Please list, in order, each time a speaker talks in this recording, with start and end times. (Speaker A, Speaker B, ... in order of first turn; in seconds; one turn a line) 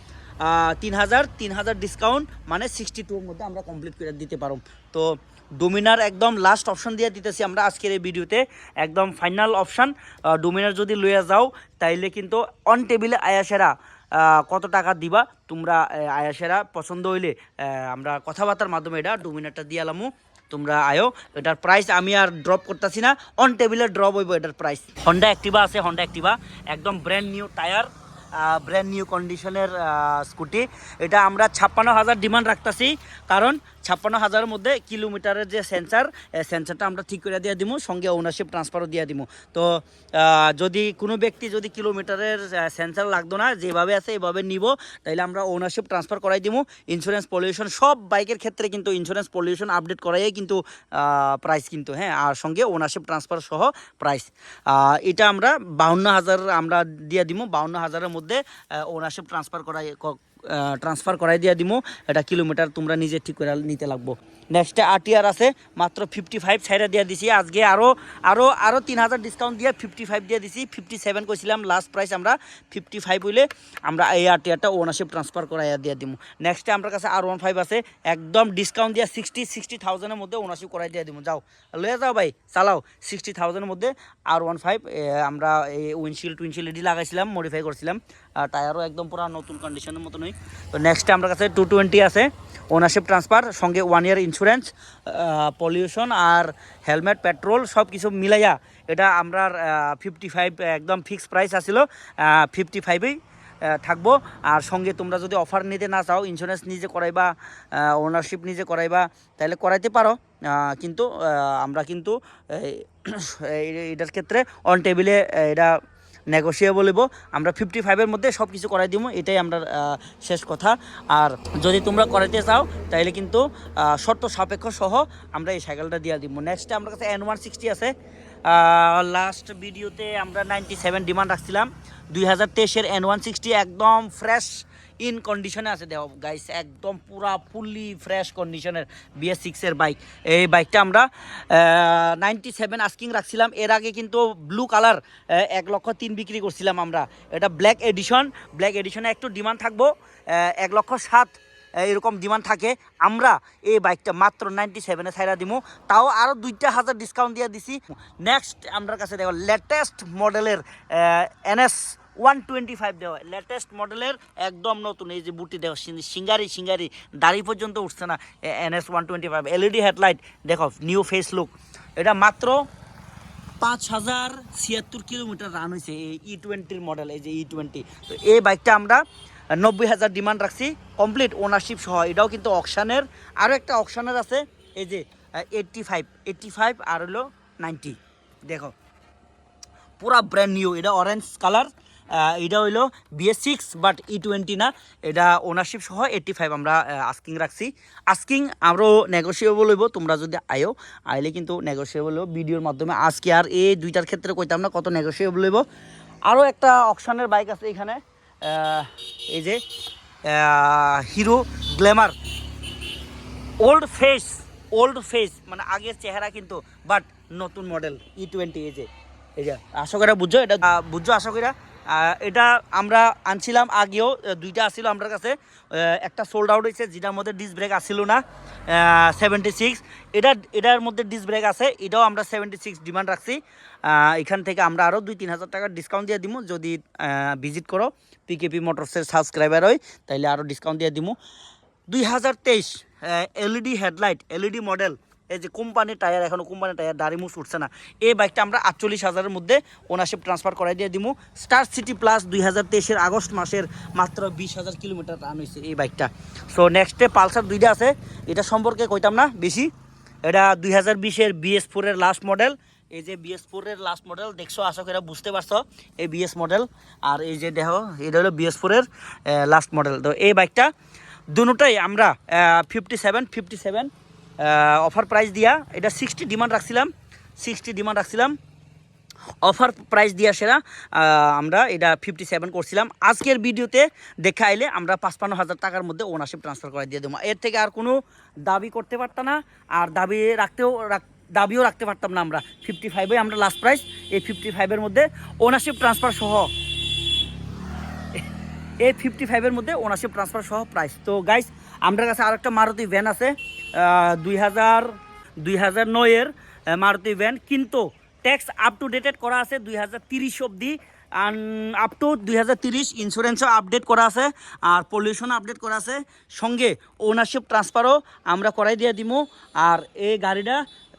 Speaker A: 0.4-103.2
Speaker A: 103.7-115.8
Speaker A: 116.3-127.9
Speaker A: 128.5-172.6
Speaker A: 173.6-179.0
Speaker A: 179.6-188.7
Speaker A: 190.0-205.6
Speaker A: 206.3-209.6
Speaker A: 210.3-212.1
Speaker A: 213.6-241.2
Speaker A: 241.9-259.7
Speaker A: 260.2-270.7
Speaker A: 271.3-273.9
Speaker A: 274.4-278.4
Speaker A: 279.4-296.5
Speaker A: 298.8-320.6